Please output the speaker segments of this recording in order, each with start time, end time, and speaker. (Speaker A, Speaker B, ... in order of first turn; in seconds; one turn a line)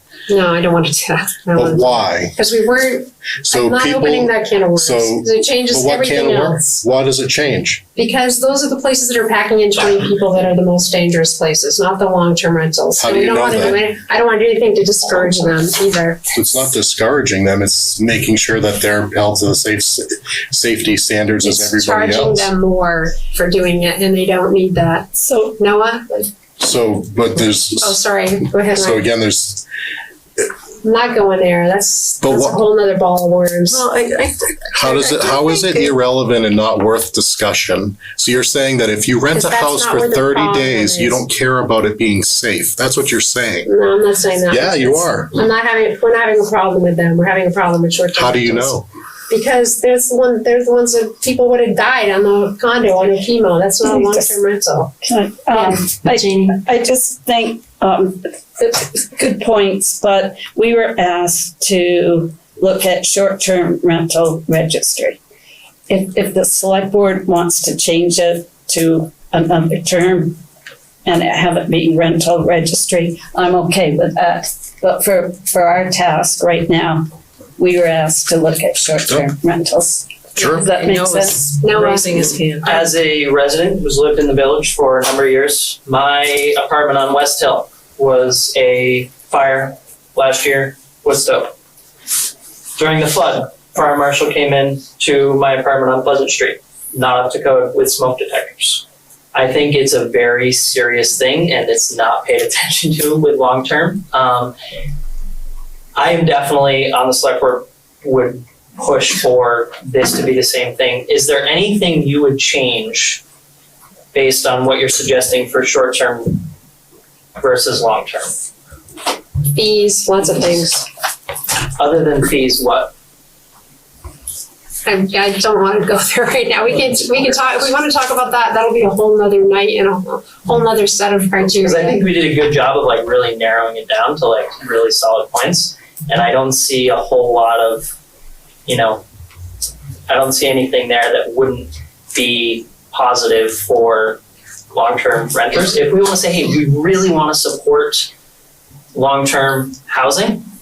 Speaker A: 0.3-6.8
Speaker B: 1.6-2.4
Speaker B: 3.5-7.8
Speaker A: 8.0-16.2
Speaker B: 13.0-13.9
Speaker B: 16.4-22.5
Speaker A: 21.4-26.3
Speaker B: 26.6-28.0
Speaker A: 27.8-29.1
Speaker B: 28.7-29.6
Speaker A: 30.8-33.9
Speaker B: 32.2-32.6
Speaker C: 33.7-35.9
Speaker B: 34.7-43.7
Speaker A: 39.3-41.2
Speaker A: 43.7-48.8
Speaker B: 44.5-45.3
Speaker B: 48.1-48.9
Speaker A: 49.3-54.9
Speaker D: 53.9-54.4
Speaker D: 55.0-65.2
Speaker A: 55.5-56.6
Speaker D: 65.9-70.4
Speaker D: 71.0-77.0
Speaker D: 77.6-82.0
Speaker B: 80.4-80.7
Speaker C: 80.7-82.8
Speaker A: 81.6-82.3
Speaker E: 82.6-91.5
Speaker E: 92.8-104.5
Speaker E: 106.0-113.2
Speaker E: 114.1-116.4
Speaker E: 117.4-118.3
Speaker A: 119.5-120.8
Speaker E: 121.8-122.9
Speaker A: 124.8-132.0
Speaker E: 131.4-137.9
Speaker E: 138.7-139.0
Speaker E: 140.1-148.1
Speaker E: 148.9-150.5